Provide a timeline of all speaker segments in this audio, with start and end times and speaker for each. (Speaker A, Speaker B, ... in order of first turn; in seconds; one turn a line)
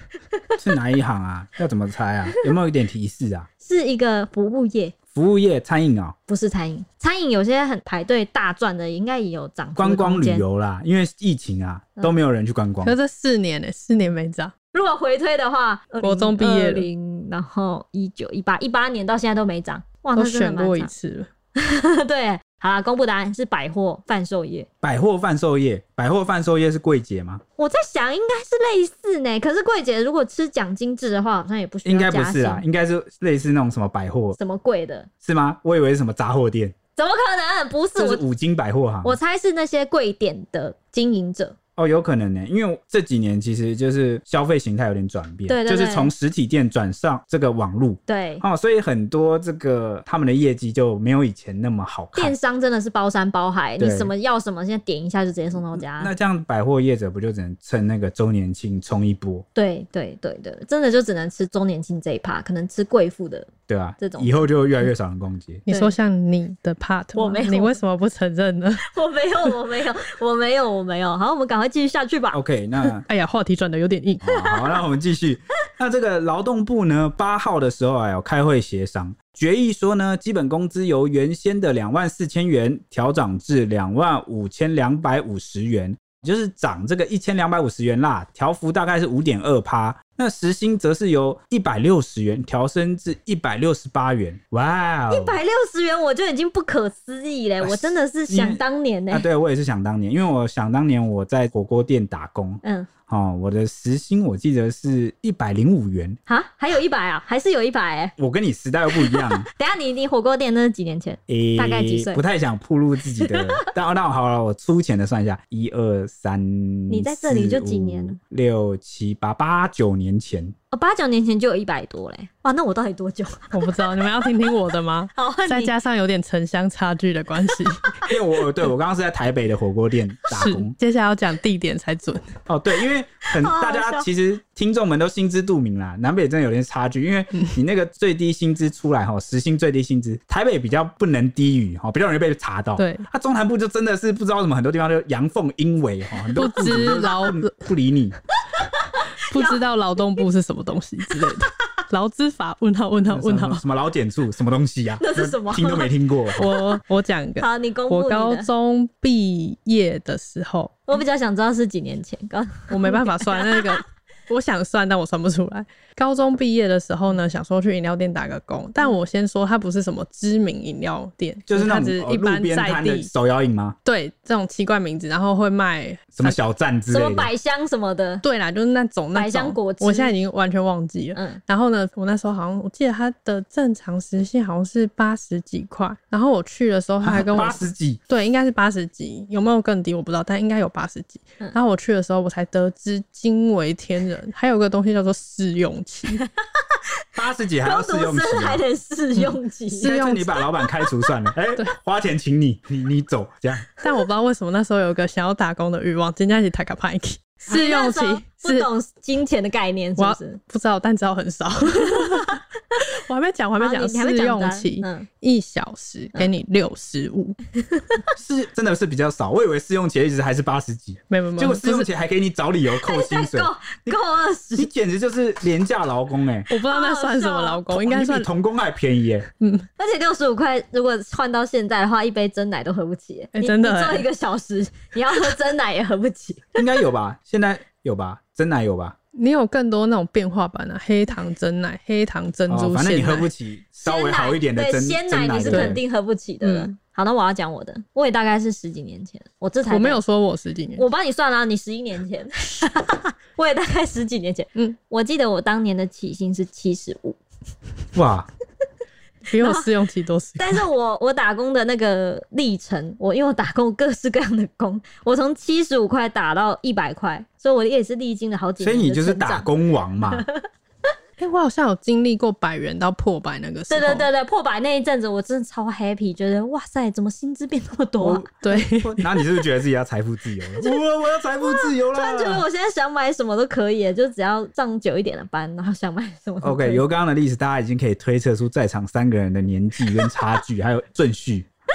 Speaker A: 0.6-3.5
Speaker B: 3.6-4.9
Speaker A: 5.1-6.2
Speaker B: 6.3-10.4
Speaker A: 9.8-12.9
Speaker C: 12.8-14.5
Speaker B: 14.7-20.9
Speaker C: 16.0-16.9
Speaker C: 20.2-21.3
Speaker B: 21.6-24.7
Speaker A: 24.8-27.4
Speaker B: 27.6-32.6
Speaker A: 31.9-34.4
Speaker B: 34.4-35.1
Speaker A: 35.2-36.8
Speaker B: 37.0-38.2
Speaker A: 38.0-39.2
Speaker B: 39.0-41.6
Speaker A: 41.8-52.4
Speaker B: 45.5-46.1
Speaker B: 48.1-48.4
Speaker B: 52.1-56.1
Speaker A: 53.8-54.1
Speaker A: 55.7-59.5
Speaker B: 59.5-64.4
Speaker A: 63.7-65.6
Speaker C: 65.7-68.8
Speaker B: 67.2-67.8
Speaker B: 68.8-72.4
Speaker A: 72.3-73.1
Speaker C: 73.0-74.2
Speaker A: 74.2-95.4
Speaker B: 95.1-99.3
Speaker A: 97.6-106.2
Speaker B: 102.6-102.9
Speaker B: 106.3-108.2
Speaker A: 108.2-109.5
Speaker B: 109.0-112.2
Speaker A: 111.3-120.5
Speaker B: 116.9-118.2
Speaker B: 120.7-123.5
Speaker C: 123.5-128.0
Speaker B: 124.2-124.5
Speaker B: 125.2-125.7
Speaker A: 128.1-130.8
Speaker C: 130.3-132.4
Speaker A: 132.5-148.2
Speaker B: 133.3-134.1
Speaker C: 142.8-143.1
Speaker C: 146.4-147.6
Speaker B: 148.6-149.6
Speaker C: 149.3-153.6
Speaker A: 153.1-156.5
Speaker B: 155.0-155.9
Speaker C: 156.4-160.8
Speaker B: 156.5-156.8
Speaker B: 157.4-158.5
Speaker B: 160.9-163.8
Speaker C: 162.7-173.1
Speaker A: 171.5-173.8
Speaker C: 173.8-176.4
Speaker A: 176.2-177.3
Speaker B: 176.9-178.2
Speaker C: 178.2-196.2
Speaker B: 179.1-180.1
Speaker B: 181.2-181.4
Speaker A: 187.0-188.0
Speaker A: 197.2-198.6
Speaker B: 197.6-200.0
Speaker C: 199.7-200.4
Speaker A: 199.8-203.7
Speaker C: 203.8-208.7
Speaker B: 207.5-210.4
Speaker C: 210.0-217.4
Speaker B: 211.8-212.4
Speaker B: 213.6-215.1
Speaker A: 218.2-223.9
Speaker C: 221.1-221.9
Speaker B: 222.8-224.7
Speaker A: 224.6-226.5
Speaker C: 226.5-228.3
Speaker B: 226.7-227.6
Speaker A: 227.7-229.3
Speaker C: 229.4-229.7
Speaker B: 229.8-236.6
Speaker C: 233.3-234.1
Speaker A: 236.6-238.9
Speaker C: 239.2-243.3
Speaker A: 242.5-245.8
Speaker B: 243.8-250.0
Speaker C: 245.5-245.8
Speaker C: 246.4-246.7
Speaker C: 249.7-250.8
Speaker B: 250.8-257.2
Speaker A: 257.9-258.3
Speaker C: 259.3-260.7
Speaker B: 259.4-259.7
Speaker B: 260.4-269.5
Speaker A: 268.6-270.2
Speaker C: 271.2-274.1
Speaker B: 273.7-278.2
Speaker A: 278.0-282.4
Speaker C: 278.4-279.2
Speaker B: 281.4-286.8
Speaker A: 286.4-291.5